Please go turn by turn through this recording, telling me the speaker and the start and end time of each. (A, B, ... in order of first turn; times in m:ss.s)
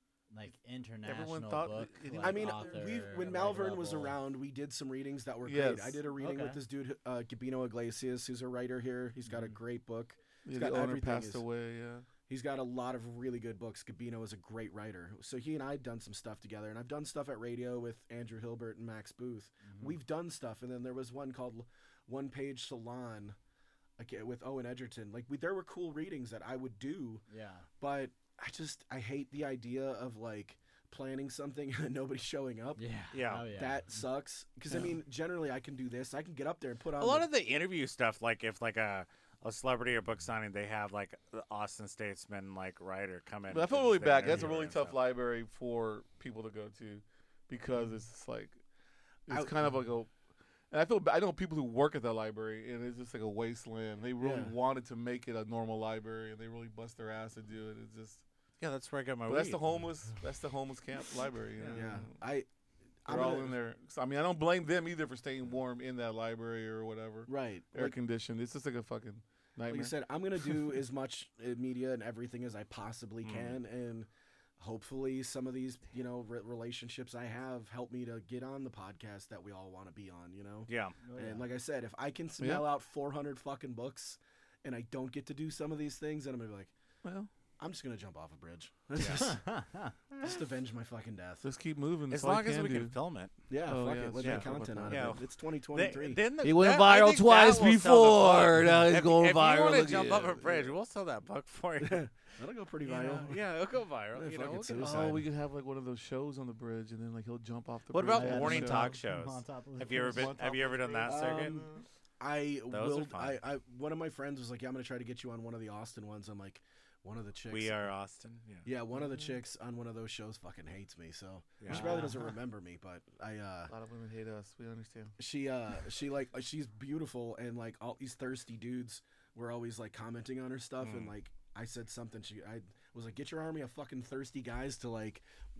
0:00.3-0:04.2 A
0:01.0-0:02.8 B
0:02.2-0:11.4 C
0:05.4-0:06.0 B
0:06.1-0:06.6 A
0:09.2-0:09.6 A
0:10.4-0:12.1 B
0:12.3-0:23.4 C
0:19.6-0:20.0 A
0:24.0-0:27.2 C
0:27.3-0:27.7 A
0:27.8-0:32.8 C
0:32.8-0:34.0 A
0:33.1-0:33.5 D
0:33.5-0:37.3 C
0:37.0-0:45.0 D
0:43.5-0:48.6 B
0:44.2-0:44.5 C
0:49.3-0:50.1 B
0:49.3-0:49.7 C
0:50.7-0:58.2 B
0:54.2-0:54.5 C
0:58.6-0:59.6 D
0:59.3-1:02.1 B
1:01.7-1:02.5 C
1:03.0-1:03.6 C
1:03.1-1:09.9 B
1:07.3-1:08.0 C
1:09.7-1:26.7 C
1:13.2-1:13.6 D
1:20.7-1:21.0 D
1:21.0-1:21.4 A
1:22.4-1:22.6 B
1:27.0-1:27.3 B
1:27.6-1:29.4 C
1:29.0-1:29.4 D
1:29.2-1:29.9 A
1:30.1-1:31.5 C
1:31.4-1:32.9 B
1:32.1-1:33.3 D
1:33.5-1:36.2 C
1:33.7-1:35.2 B
1:34.2-1:42.0 D
1:36.4-1:40.6 B
1:41.8-1:43.4 C
1:42.8-1:45.0 D
1:44.1-1:45.2 C
1:44.8-1:49.0 B
1:47.9-1:51.6 D
1:48.1-1:50.4 A
1:49.9-1:51.8 B
1:51.0-1:57.9 C
1:52.7-1:53.4 D
1:57.5-1:58.7 D
1:58.6-2:03.7 C
1:59.0-1:59.4 B
2:01.6-2:02.1 D
2:01.7-2:02.1 B
2:03.7-2:05.1 B
2:05.2-2:15.2 C
2:10.8-2:11.1 D